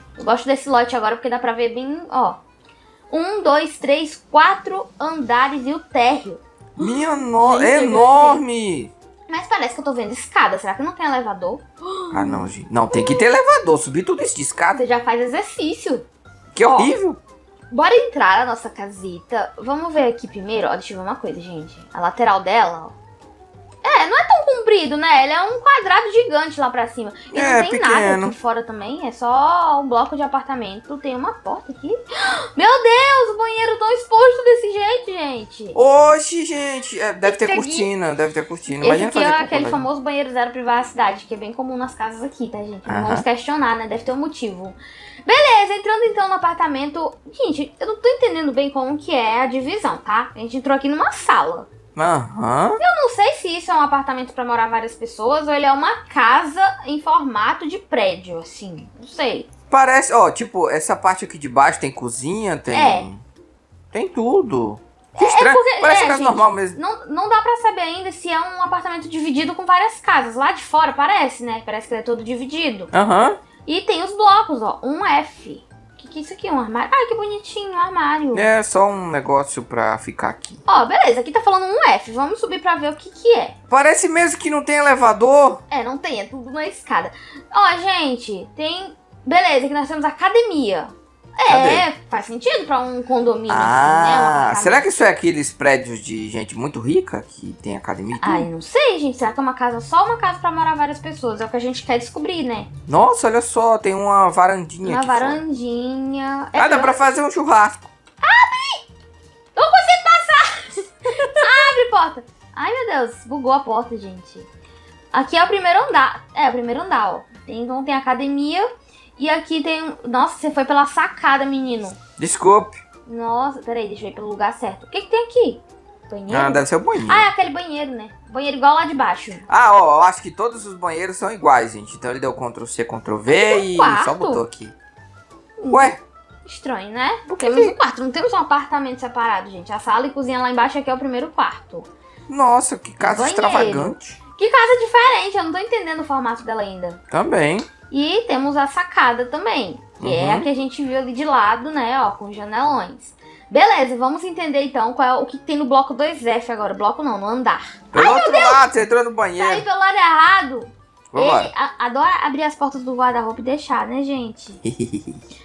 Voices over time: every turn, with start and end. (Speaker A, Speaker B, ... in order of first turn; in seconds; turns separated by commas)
Speaker A: 0.2-2.4, Speaker A: 3.1-8.4, Speaker B: 6.8-8.9, Speaker A: 9.3-13.2, Speaker B: 12.1-14.8, Speaker A: 14.7-16.1, Speaker B: 16.6-17.2, Speaker A: 16.6-16.9, Speaker A: 17.7-22.9, Speaker A: 23.8-35.8, Speaker B: 27.3-28.4, Speaker B: 35.7-39.8, Speaker A: 37.2-37.9, Speaker A: 38.8-51.7, Speaker B: 42.9-43.2, Speaker B: 51.9-52.8, Speaker A: 52.8-59.5, Speaker B: 59.7-63.2, Speaker A: 62.7-63.1, Speaker B: 63.9-66.8, Speaker A: 65.1-72.9, Speaker B: 72.9-73.4, Speaker A: 73.6-78.5, Speaker B: 78.3-80.6, Speaker A: 80.7-83.6, Speaker B: 83.7-85.6, Speaker A: 85.7-94.8, Speaker B: 91.5-91.9, Speaker B: 93.5-98.5, Speaker A: 98.2-102.7, Speaker B: 102.9-105.4, Speaker A: 104.8-107.0, Speaker B: 106.5-107.9, Speaker A: 108.2-108.9, Speaker A: 109.6-114.5, Speaker B: 111.2-111.5, Speaker A: 115.1-122.0, Speaker B: 122.2-122.8, Speaker A: 123.1-129.4, Speaker B: 126.3-127.3, Speaker B: 129.5-134.7, Speaker A: 133.3-134.4, Speaker A: 135.6-135.9, Speaker B: 135.7-136.0, Speaker A: 136.4-141.9, Speaker B: 137.3-137.8, Speaker B: 142.3-144.2, Speaker A: 143.0-147.0, Speaker B: 147.1-147.7, Speaker A: 147.9-158.7, Speaker B: 150.0-150.5, Speaker B: 157.9-159.6, Speaker A: 159.4-164.6, Speaker B: 161.1-161.5, Speaker B: 164.7-165.2